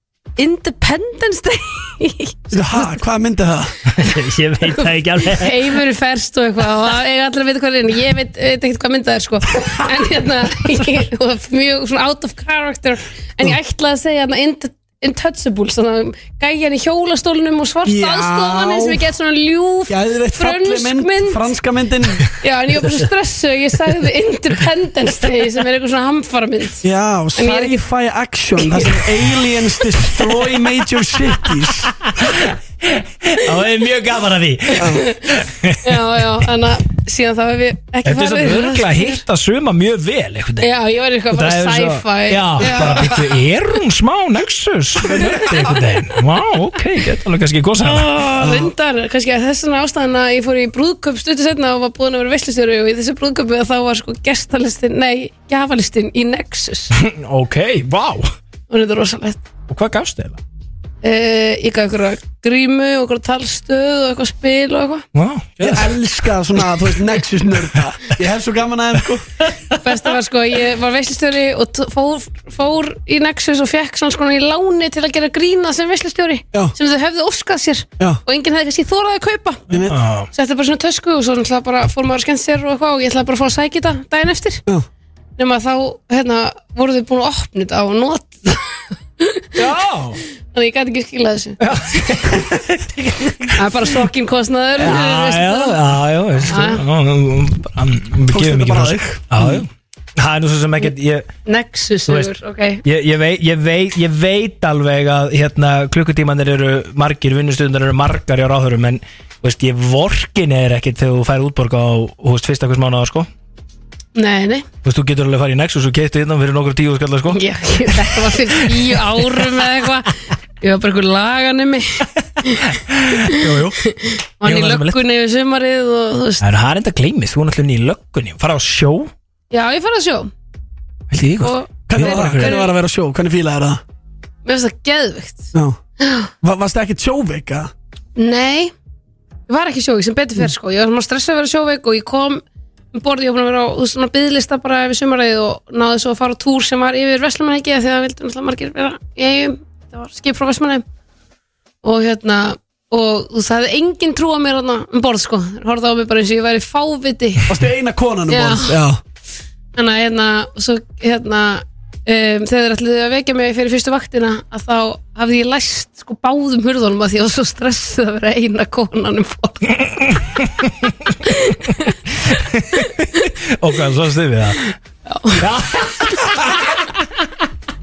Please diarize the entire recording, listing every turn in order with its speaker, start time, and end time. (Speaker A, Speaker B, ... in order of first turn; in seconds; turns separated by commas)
Speaker A: 0.4-3.0, Speaker B: 2.5-3.7, Speaker C: 3.9-5.6, Speaker A: 4.8-21.5, Speaker B: 17.9-19.0, Speaker B: 19.9-22.2, Speaker A: 22.3-26.9, Speaker B: 26.8-31.9, Speaker A: 27.4-27.8, Speaker C: 32.0-36.2, Speaker B: 34.8-35.0, Speaker A: 34.8-39.2, Speaker C: 38.0-40.7, Speaker A: 40.6-43.3, Speaker C: 41.3-48.1, Speaker B: 42.6-43.1, Speaker A: 47.8-56.9, Speaker B: 48.4-48.7, Speaker C: 57.0-58.3, Speaker A: 58.7-59.4, Speaker C: 59.7-60.4, Speaker A: 61.0-65.0, Speaker C: 65.2-65.9, Speaker B: 65.6-69.2, Speaker C: 69.4-69.8, Speaker A: 69.8-79.7, Speaker B: 79.7-80.0, Speaker C: 79.8-80.3, Speaker A: 80.3-84.6, Speaker A: 85.4-88.7, Speaker A: 89.2-89.5, Speaker C: 89.6-90.2, Speaker A: 90.5-92.0, Speaker C: 91.6-93.7, Speaker A: 93.6-96.8, Speaker C: 94.8-101.3, Speaker B: 98.3-99.6, Speaker A: 101.5-102.8, Speaker C: 102.1-102.3, Speaker C: 102.8-113.3, Speaker A: 114.2-114.7, Speaker C: 114.8-119.6, Speaker A: 117.3-122.7, Speaker C: 122.6-123.8, Speaker A: 123.3-126.5, Speaker C: 124.4-125.0, Speaker C: 126.4-129.1, Speaker A: 129.5-130.3, Speaker C: 131.1-132.6, Speaker A: 131.4-132.7, Speaker B: 131.9-133.8, Speaker A: 134.4-136.3, Speaker B: 135.5-135.8, Speaker B: 136.4-137.7, Speaker A: 138.2-138.7, Speaker A: 139.5-142.4, Speaker A: 142.9-150.8, Speaker A: 151.8-157.5, Speaker B: 157.5-159.0, Speaker A: 158.3-158.8, Speaker A: 159.8-169.8, Speaker C: 169.8-174.7, Speaker A: 171.2-171.9, Speaker A: 175.1-175.4, Speaker C: 175.4-177.1